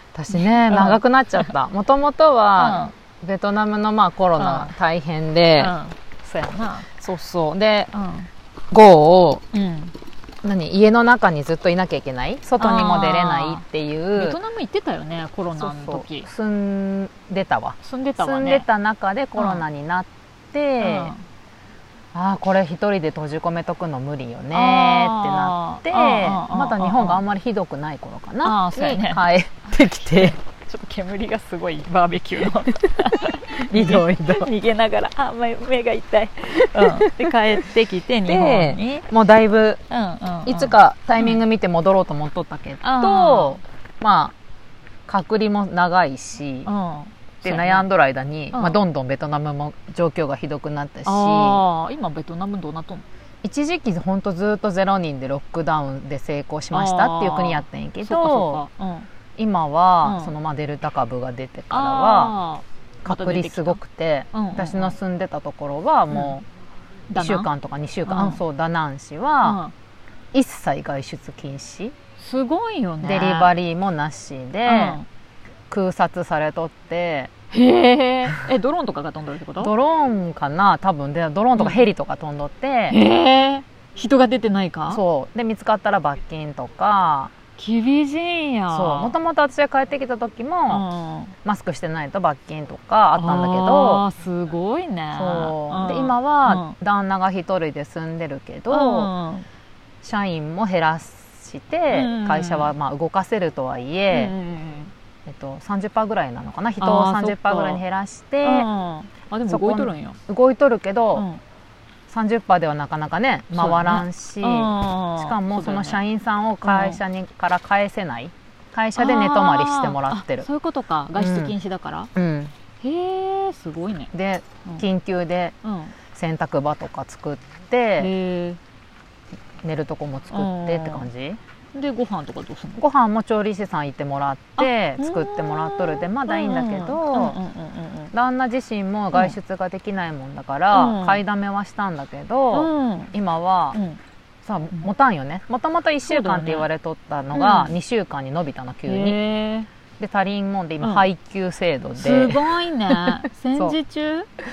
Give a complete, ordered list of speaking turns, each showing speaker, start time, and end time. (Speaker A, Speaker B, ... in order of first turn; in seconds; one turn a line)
Speaker A: 0.1-5.7
Speaker B: 0.3-1.5
Speaker B: 2.6-2.9
Speaker B: 4.4-4.7
Speaker B: 5.6-6.9
Speaker A: 7.0-7.9
Speaker B: 7.9-8.3
Speaker A: 8.7-9.4
Speaker B: 9.5-9.9
Speaker A: 10.4-14.4
Speaker B: 12.6-13.6
Speaker B: 14.1-16.3
Speaker A: 15.5-21.1
Speaker B: 17.8-18.7
Speaker B: 19.4-19.6
Speaker B: 20.8-21.2
Speaker A: 22.1-30.4
Speaker B: 24.5-27.2
Speaker B: 28.4-29.2
Speaker B: 30.2-39.1
Speaker A: 33.6-34.5
Speaker A: 36.7-37.1
Speaker A: 38.2-39.8
Speaker B: 39.9-41.4
Speaker A: 40.5-44.3
Speaker B: 42.8-43.6
Speaker A: 45.0-46.7
Speaker B: 46.6-47.9
Speaker A: 47.4-51.6
Speaker B: 48.5-48.8
Speaker B: 51.0-53.0
Speaker A: 53.4-58.6
Speaker B: 56.7-59.1
Speaker A: 59.4-62.4
Speaker B: 60.0-60.3
Speaker B: 61.7-63.8
Speaker A: 63.0-66.5
Speaker B: 64.3-64.9
Speaker B: 67.1-67.5
Speaker A: 67.2-69.6
Speaker B: 68.0-68.4
Speaker B: 69.4-69.7
Speaker A: 70.3-71.9
Speaker B: 72.2-73.5
Speaker A: 73.0-75.0
Speaker B: 74.7-75.0
Speaker A: 75.7-77.3
Speaker B: 77.5-79.7
Speaker A: 79.6-83.0
Speaker B: 81.5-81.8
Speaker B: 82.9-85.0
Speaker A: 84.9-87.3
Speaker B: 87.6-89.1
Speaker A: 88.7-90.8
Speaker B: 90.7-91.3
Speaker A: 91.4-94.0
Speaker B: 93.2-96.8
Speaker A: 95.1-99.1
Speaker B: 98.7-99.5
Speaker A: 100.0-104.3
Speaker B: 101.9-102.7
Speaker B: 104.1-104.9
Speaker A: 105.2-108.7
Speaker B: 106.8-107.8
Speaker B: 108.4-110.2
Speaker A: 109.5-111.2
Speaker B: 111.1-111.4
Speaker A: 112.1-120.5
Speaker B: 113.5-116.0
Speaker B: 116.6-117.0
Speaker B: 119.0-122.1
Speaker A: 121.2-121.5
Speaker A: 122.1-122.5
Speaker B: 122.8-124.1
Speaker A: 124.1-125.5
Speaker B: 125.6-125.9
Speaker A: 126.1-128.1
Speaker B: 128.0-128.6
Speaker A: 129.6-131.4
Speaker B: 130.3-131.1
Speaker B: 131.7-132.8
Speaker A: 132.8-137.4
Speaker B: 134.6-138.1
Speaker A: 138.1-143.8
Speaker B: 140.7-141.2
Speaker B: 142.5-143.1
Speaker B: 143.7-144.0
Speaker A: 144.4-149.2
Speaker B: 146.0-146.7
Speaker B: 147.3-147.7
Speaker B: 148.9-149.7
Speaker A: 150.0-153.8
Speaker B: 150.8-151.1
Speaker B: 152.0-154.3